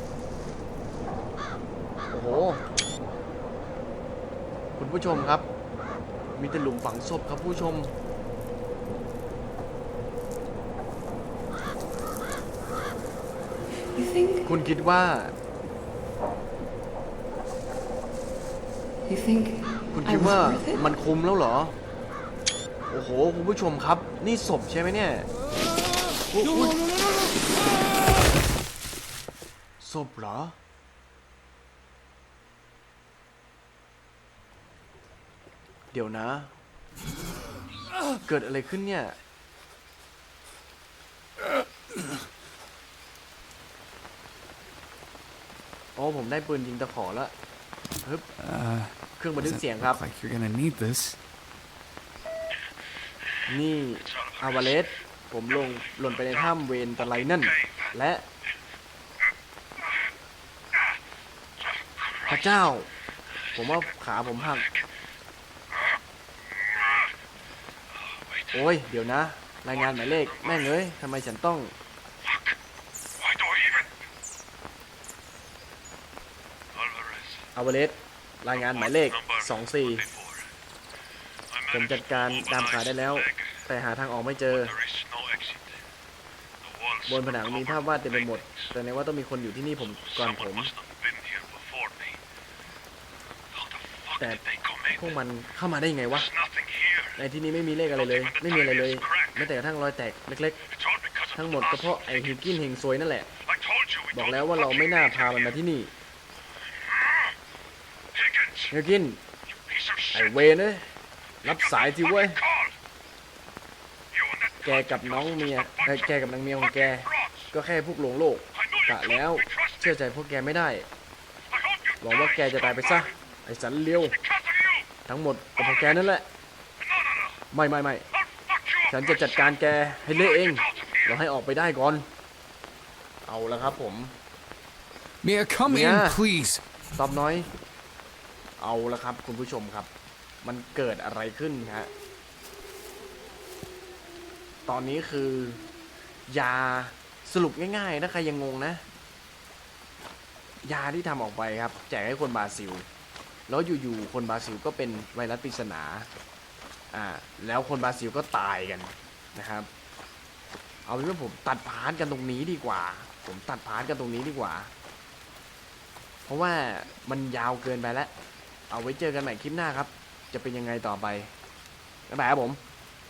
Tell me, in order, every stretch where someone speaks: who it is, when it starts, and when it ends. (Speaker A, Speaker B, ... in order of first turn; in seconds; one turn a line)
Speaker A: 2.1-2.6
Speaker A: 4.8-5.5
Speaker A: 6.3-7.9
Speaker B: 13.8-14.4
Speaker A: 14.4-15.3
Speaker B: 19.1-20.8
Speaker A: 19.9-21.8
Speaker A: 22.9-25.3
Speaker A: 26.3-26.8
Speaker A: 29.8-30.6
Speaker A: 35.9-36.5
Speaker A: 38.2-39.2
Speaker A: 46.0-47.3
Speaker C: 48.4-51.2
Speaker A: 49.1-50.0
Speaker A: 53.5-58.2
Speaker D: 54.0-54.9
Speaker D: 55.5-58.0
Speaker D: 61.6-62.5
Speaker A: 62.3-62.9
Speaker D: 63.4-64.9
Speaker A: 63.5-64.7
Speaker D: 65.7-67.1
Speaker D: 67.9-68.7
Speaker A: 68.5-71.7
Speaker D: 69.6-70.8
Speaker D: 72.2-72.5
Speaker D: 73.1-73.9
Speaker D: 76.7-77.5
Speaker A: 77.5-80.0
Speaker D: 78.5-80.5
Speaker D: 81.5-83.6
Speaker A: 81.7-84.8
Speaker D: 84.5-85.8
Speaker D: 86.6-88.7
Speaker A: 87.1-90.7
Speaker D: 89.8-92.2
Speaker D: 93.5-95.1
Speaker A: 94.9-96.3
Speaker D: 96.1-97.2
Speaker A: 97.2-100.6
Speaker D: 97.9-99.5
Speaker D: 100.7-102.5
Speaker A: 101.3-103.3
Speaker D: 103.4-105.6
Speaker A: 104.1-105.9
Speaker D: 106.8-107.3
Speaker D: 108.1-108.7
Speaker A: 108.7-109.2
Speaker D: 109.5-110.3
Speaker A: 110.1-112.4
Speaker D: 111.4-112.7
Speaker D: 114.1-117.5
Speaker A: 114.6-120.9
Speaker D: 118.5-119.9
Speaker D: 121.5-123.1
Speaker A: 122.0-124.2
Speaker D: 124.1-124.9
Speaker A: 125.1-126.2
Speaker D: 125.6-126.0
Speaker D: 126.8-127.4
Speaker A: 127.5-128.1
Speaker D: 128.2-131.2
Speaker A: 128.9-132.1
Speaker A: 133.2-134.1
Speaker C: 135.2-136.6
Speaker A: 135.7-136.2
Speaker A: 136.9-137.5
Speaker A: 138.6-139.9
Speaker A: 140.4-141.9
Speaker A: 144.7-145.6
Speaker A: 146.3-148.8
Speaker A: 150.6-152.8
Speaker A: 153.5-156.1
Speaker A: 156.9-159.7
Speaker A: 160.8-164.7
Speaker A: 166.2-168.1
Speaker A: 168.7-171.3
Speaker A: 172.1-172.6